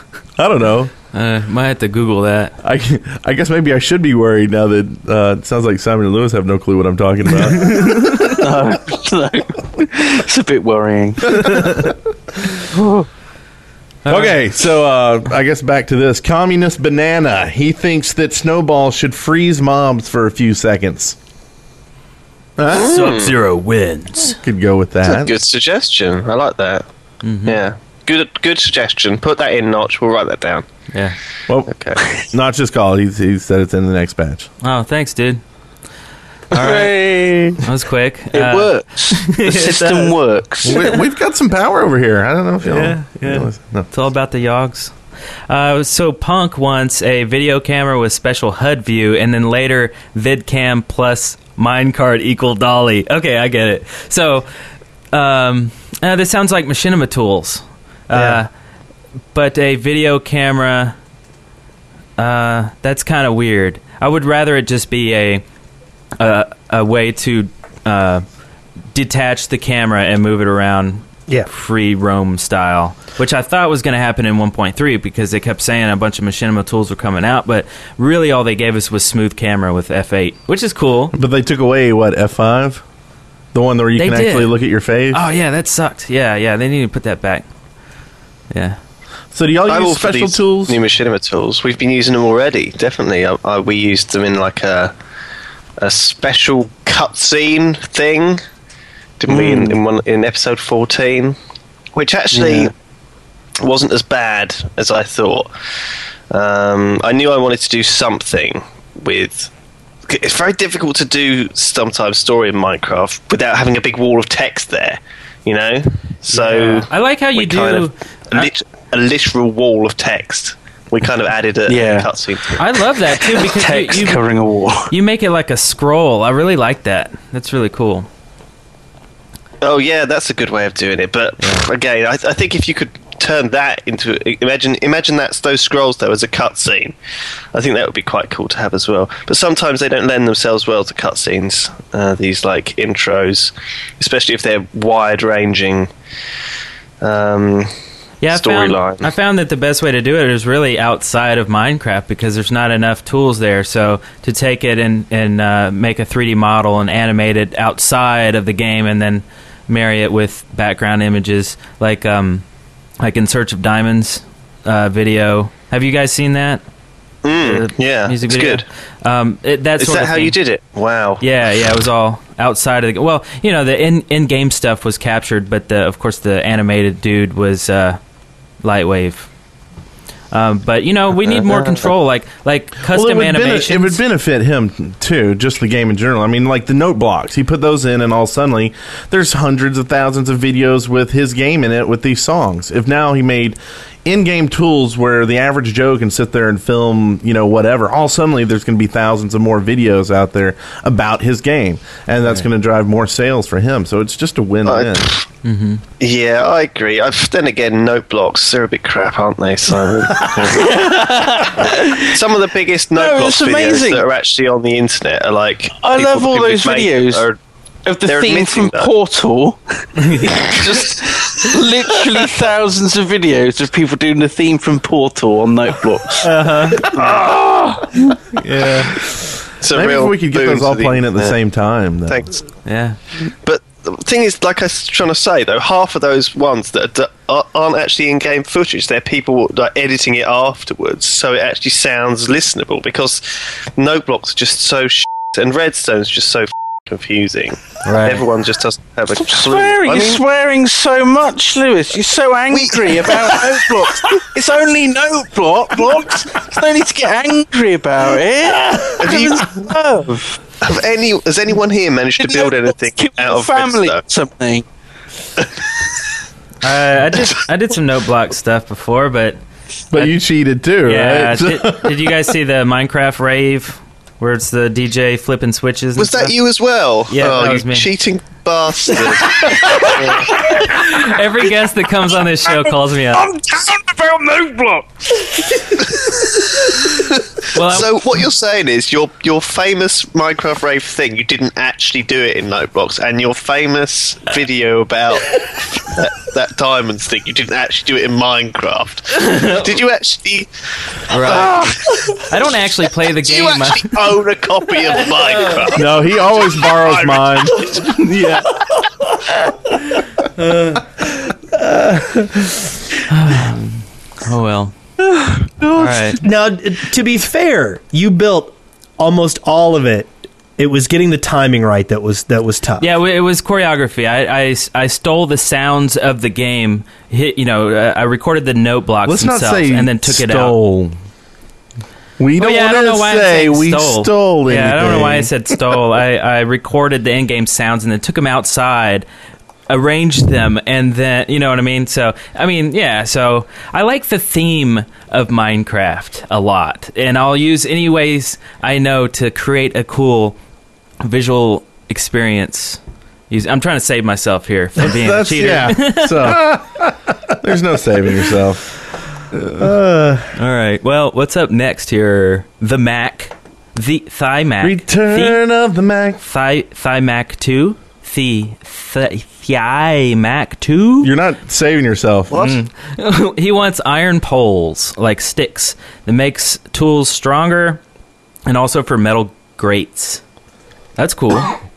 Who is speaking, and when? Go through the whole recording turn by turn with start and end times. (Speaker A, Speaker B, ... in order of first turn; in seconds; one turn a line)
Speaker A: 0.4-0.9
Speaker B: 1.1-2.5
Speaker A: 2.6-8.3
Speaker B: 7.8-8.1
Speaker C: 8.2-11.7
Speaker A: 11.3-11.9
Speaker C: 12.7-13.0
Speaker B: 14.0-14.3
Speaker A: 14.1-21.1
Speaker A: 22.6-23.0
Speaker B: 22.7-24.4
Speaker D: 22.7-23.3
Speaker A: 24.3-25.3
Speaker D: 25.0-26.8
Speaker B: 27.2-27.6
Speaker D: 27.4-30.6
Speaker A: 31.5-34.5
Speaker D: 31.7-32.0
Speaker B: 34.6-35.4
Speaker B: 36.5-37.0
Speaker C: 36.5-37.6
Speaker B: 37.6-40.1
Speaker C: 38.3-40.8
Speaker A: 40.6-43.9
Speaker B: 42.6-44.9
Speaker B: 45.5-54.5
Speaker B: 55.1-58.5
Speaker E: 58.1-58.4
Speaker B: 59.3-60.9
Speaker B: 62.2-65.4
Speaker B: 66.2-68.2
Speaker B: 68.9-81.1
Speaker A: 81.1-82.8
Speaker A: 83.5-85.3
Speaker B: 84.0-84.5
Speaker B: 85.1-87.4
Speaker B: 88.5-88.8
Speaker A: 89.3-90.8
Speaker D: 89.7-94.9
Speaker D: 95.8-98.4
Speaker D: 99.2-101.4
Speaker C: 99.3-99.8
Speaker D: 101.9-102.7
Speaker C: 102.3-102.7
Speaker D: 103.6-105.5
Speaker D: 106.3-109.5
Speaker D: 110.1-122.6
Speaker B: 116.3-118.5
Speaker C: 121.7-122.1
Speaker B: 122.6-124.2
Speaker C: 123.2-124.9
Speaker B: 124.9-128.1
Speaker D: 129.6-136.9
Speaker D: 137.5-145.9
Speaker D: 147.0-147.7
Speaker B: 148.2-162.4
Speaker D: 148.3-149.1
Speaker B: 163.0-166.6
Speaker D: 167.2-168.6
Speaker B: 167.4-170.4
Speaker D: 169.8-171.2
Speaker B: 171.2-178.0
Speaker B: 178.6-179.3
Speaker B: 180.3-184.0
Speaker D: 181.2-181.8
Speaker A: 182.9-205.1
Speaker D: 204.7-205.3
Speaker B: 205.4-205.8
Speaker D: 206.0-211.0
Speaker C: 210.6-212.0
Speaker D: 211.6-217.4
Speaker C: 212.9-214.0
Speaker C: 215.8-217.2
Speaker C: 217.8-227.8
Speaker D: 218.0-218.9
Speaker B: 220.0-220.4
Speaker D: 220.5-221.5
Speaker B: 226.2-226.9
Speaker D: 226.9-227.3
Speaker B: 228.3-229.0
Speaker D: 229.6-231.3
Speaker A: 229.7-232.2
Speaker D: 232.1-232.5
Speaker B: 232.6-233.0
Speaker D: 233.2-250.2
Speaker B: 247.8-248.2
Speaker C: 249.1-260.4
Speaker D: 252.5-254.2
Speaker D: 259.0-259.7
Speaker D: 260.6-264.0
Speaker C: 262.2-264.6
Speaker B: 266.6-269.4
Speaker A: 269.9-272.1
Speaker B: 270.9-276.3
Speaker D: 275.9-280.5
Speaker B: 277.1-277.9
Speaker B: 279.8-283.3
Speaker C: 282.5-285.7
Speaker B: 287.5-287.9
Speaker D: 287.6-302.4
Speaker B: 299.3-299.5
Speaker B: 301.1-304.2
Speaker D: 303.1-305.9
Speaker A: 305.7-307.8
Speaker D: 306.7-307.9
Speaker B: 307.9-308.4
Speaker E: 311.6-312.4
Speaker B: 313.1-314.7
Speaker B: 315.8-316.2
Speaker E: 316.2-322.9
Speaker B: 322.8-330.6
Speaker A: 329.0-330.9
Speaker A: 332.2-335.3
Speaker B: 332.4-339.1
Speaker B: 339.7-350.4
Speaker B: 351.0-356.4
Speaker A: 354.8-358.7
Speaker E: 359.6-360.3
Speaker B: 360.4-365.4
Speaker A: 364.6-366.2
Speaker B: 366.2-371.1
Speaker A: 371.0-372.6
Speaker B: 372.3-377.8
Speaker B: 378.5-380.2
Speaker B: 381.0-381.6